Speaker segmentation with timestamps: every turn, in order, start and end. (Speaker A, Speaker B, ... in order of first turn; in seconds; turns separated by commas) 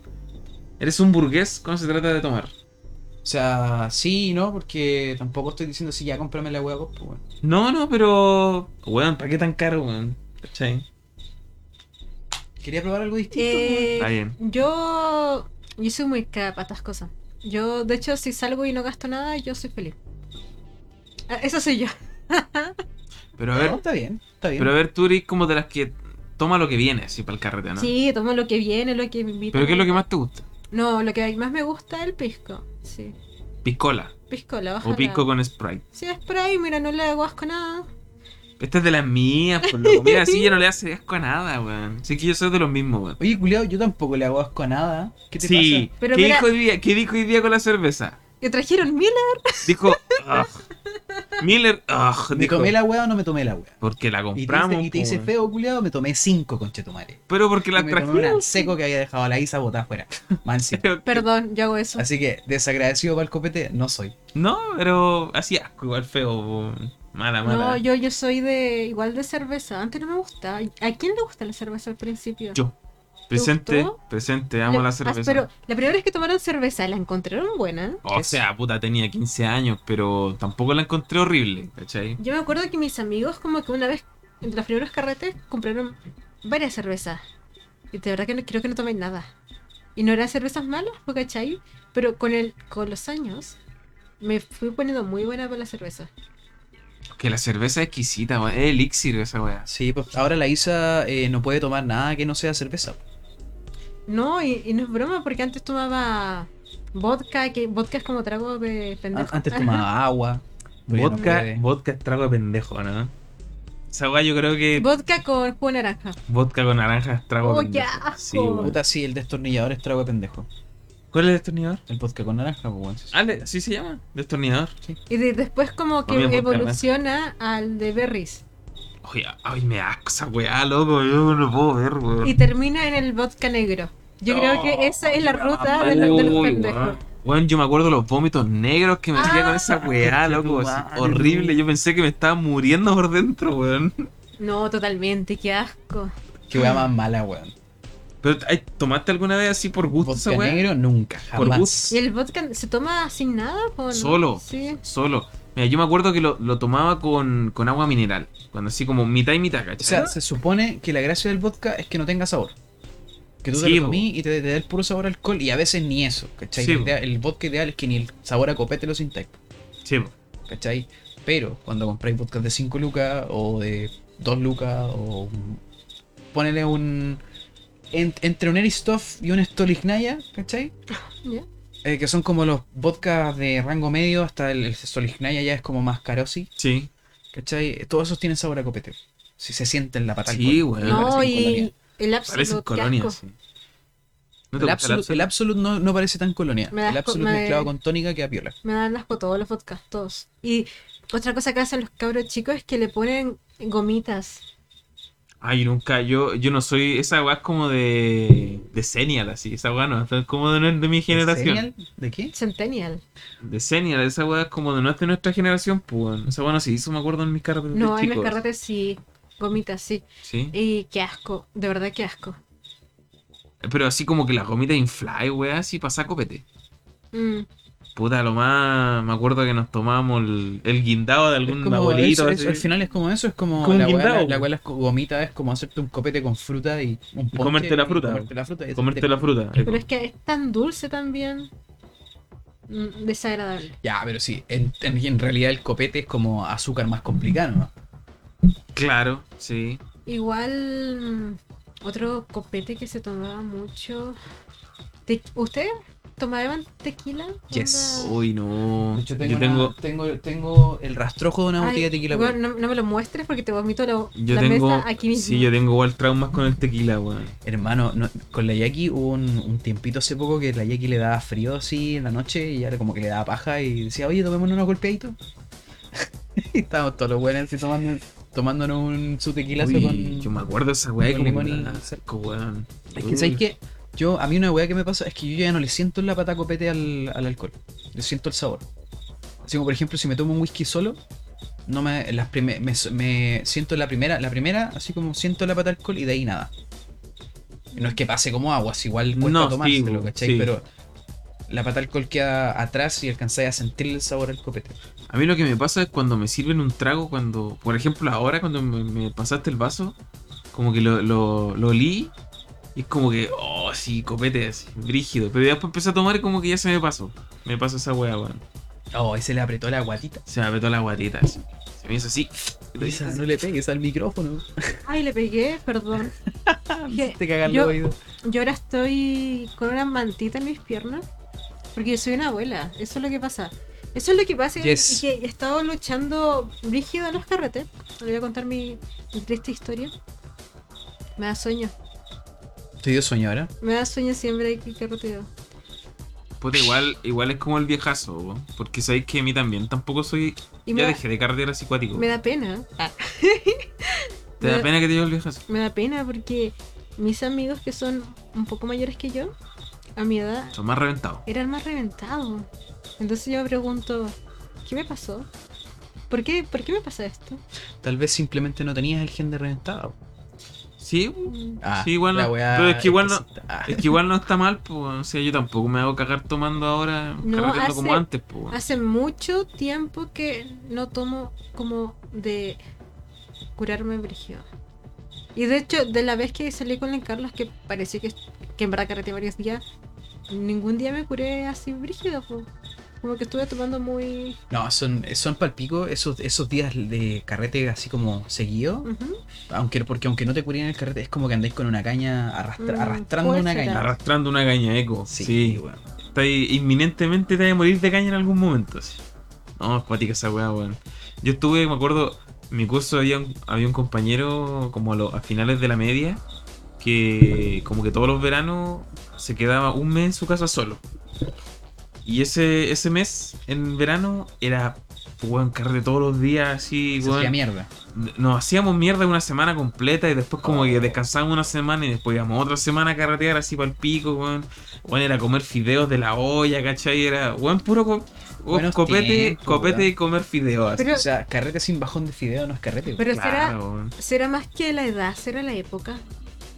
Speaker A: 0.8-2.5, Speaker B: 3.2-7.2, Speaker A: 7.4-10.9, Speaker B: 12.6-14.0, Speaker C: 13.3-20.0, Speaker A: 14.0-14.4, Speaker C: 21.3-22.8, Speaker A: 23.4-23.8, Speaker B: 23.5-24.7, Speaker A: 24.6-27.9, Speaker C: 27.8-30.0, Speaker A: 29.5-30.4, Speaker C: 30.7-33.2, Speaker A: 33.6-34.1, Speaker C: 34.3-35.3, Speaker A: 34.8-35.8, Speaker C: 35.9-37.9, Speaker A: 38.6-43.2, Speaker C: 39.6-40.5, Speaker B: 43.2-45.9, Speaker A: 45.4-48.2, Speaker C: 46.0-46.5, Speaker C: 48.4-51.2, Speaker A: 49.6-50.6, Speaker A: 51.4-52.8, Speaker B: 52.3-53.8, Speaker A: 53.8-55.3, Speaker B: 54.4-57.2, Speaker A: 57.3-58.5, Speaker B: 57.7-60.8, Speaker A: 60.7-61.2, Speaker C: 61.1-62.1, Speaker B: 62.0-64.2, Speaker A: 64.3-67.8, Speaker C: 67.4-72.6, Speaker A: 73.3-75.5, Speaker C: 73.3-74.0, Speaker C: 74.7-78.0, Speaker A: 78.0-82.2, Speaker B: 78.1-78.4, Speaker C: 82.2-87.2, Speaker C: 87.9-89.3, Speaker C: 90.0-93.6, Speaker C: 94.2-96.1, Speaker A: 97.1-99.7, Speaker B: 99.7-103.0, Speaker C: 104.1-109.9, Speaker B: 109.1-111.6, Speaker A: 110.9-113.1, Speaker A: 113.9-114.9, Speaker C: 114.8-116.2, Speaker A: 116.3-118.8, Speaker C: 117.4-118.8, Speaker B: 118.5-120.5, Speaker A: 121.1-121.8, Speaker B: 121.9-123.2, Speaker A: 123.1-124.7, Speaker C: 125.1-128.4, Speaker A: 126.1-126.8, Speaker A: 129.0-132.4, Speaker C: 132.2-137.0, Speaker A: 134.3-144.1, Speaker B: 135.8-136.6, Speaker C: 139.2-139.8, Speaker B: 139.8-141.6, Speaker C: 144.4-146.8, Speaker B: 146.5-147.6, Speaker A: 148.2-150.7, Speaker B: 150.0-152.0, Speaker A: 151.3-151.9, Speaker C: 151.4-154.8, Speaker A: 153.9-160.2, Speaker B: 159.8-162.6, Speaker B: 163.4-169.4, Speaker A: 163.5-164.1, Speaker A: 166.6-167.0, Speaker A: 169.8-170.1, Speaker B: 170.5-175.6, Speaker B: 176.3-177.2, Speaker B: 177.9-180.7, Speaker B: 181.8-186.5, Speaker A: 186.6-186.9, Speaker B: 187.3-191.7, Speaker A: 190.3-191.2, Speaker C: 190.8-193.2, Speaker A: 192.3-193.3, Speaker A: 194.5-195.3, Speaker B: 194.6-198.6, Speaker C: 196.7-197.7, Speaker C: 198.6-204.4, Speaker A: 205.4-211.7, Speaker B: 211.1-212.3, Speaker C: 212.3-213.0, Speaker A: 213.4-218.4, Speaker C: 217.7-222.4, Speaker A: 220.2-220.6, Speaker A: 223.6-226.4, Speaker C: 227.1-227.5, Speaker A: 228.0-232.7, Speaker B: 231.5-239.2, Speaker A: 233.6-234.5, Speaker A: 237.3-239.8, Speaker C: 239.7-241.5, Speaker C: 242.7-243.8, Speaker B: 243.8-247.7, Speaker A: 248.7-249.8, Speaker C: 250.1-254.2, Speaker C: 255.1-258.1, Speaker B: 257.5-258.1, Speaker A: 258.0-259.7, Speaker B: 258.9-262.4, Speaker C: 261.6-265.5, Speaker A: 264.2-267.4, Speaker B: 267.4-275.2, Speaker B: 275.9-280.4, Speaker A: 279.6-283.4, Speaker B: 281.0-282.0, Speaker B: 283.0-288.7, Speaker B: 289.4-291.0, Speaker B: 291.7-296.5, Speaker C: 297.7-298.0, Speaker B: 297.8-300.6, Speaker A: 299.1-300.5, Speaker B: 301.5-304.8, Speaker A: 305.1-310.0, Speaker A: 310.5-312.1, Speaker A: 312.8-318.4, Speaker B: 318.9-320.2, Speaker A: 320.3-323.3, Speaker B: 322.8-324.8, Speaker C: 324.9-326.1, Speaker B: 326.5-328.0, Speaker C: 326.9-331.1, Speaker C: 331.7-339.9, Speaker B: 334.6-335.1, Speaker C: 341.2-341.8, Speaker B: 342.8-343.5, Speaker C: 343.6-345.3, Speaker A: 346.4-352.1, Speaker C: 350.7-351.0, Speaker C: 351.9-354.7, Speaker A: 354.4-355.4, Speaker C: 355.5-359.4, Speaker C: 360.0-360.6, Speaker A: 360.6-361.2, Speaker C: 361.3-362.5, Speaker C: 363.0-365.3, Speaker C: 366.1-367.4, Speaker B: 367.8-370.0, Speaker A: 370.8-378.6, Speaker C: 371.3-371.6, Speaker B: 371.6-374.0, Speaker C: 377.2-382.6, Speaker C: 383.6-384.4, Speaker C: 385.4-389.6, Speaker C: 390.3-392.5, Speaker C: 393.0-394.4, Speaker B: 394.5-398.9, Speaker C: 398.8-399.2, Speaker B: 399.5-403.9, Speaker C: 402.6-403.9, Speaker A: 403.7-409.0, Speaker B: 405.1-405.8, Speaker A: 409.6-416.2, Speaker A: 416.8-420.8, Speaker A: 422.1-427.4, Speaker B: 427.0-427.7, Speaker A: 427.9-440.9, Speaker B: 430.4-431.0, Speaker B: 438.5-439.9, Speaker C: 440.8-441.1, Speaker B: 440.9-443.0, Speaker C: 443.0-446.0, Speaker A: 443.1-443.9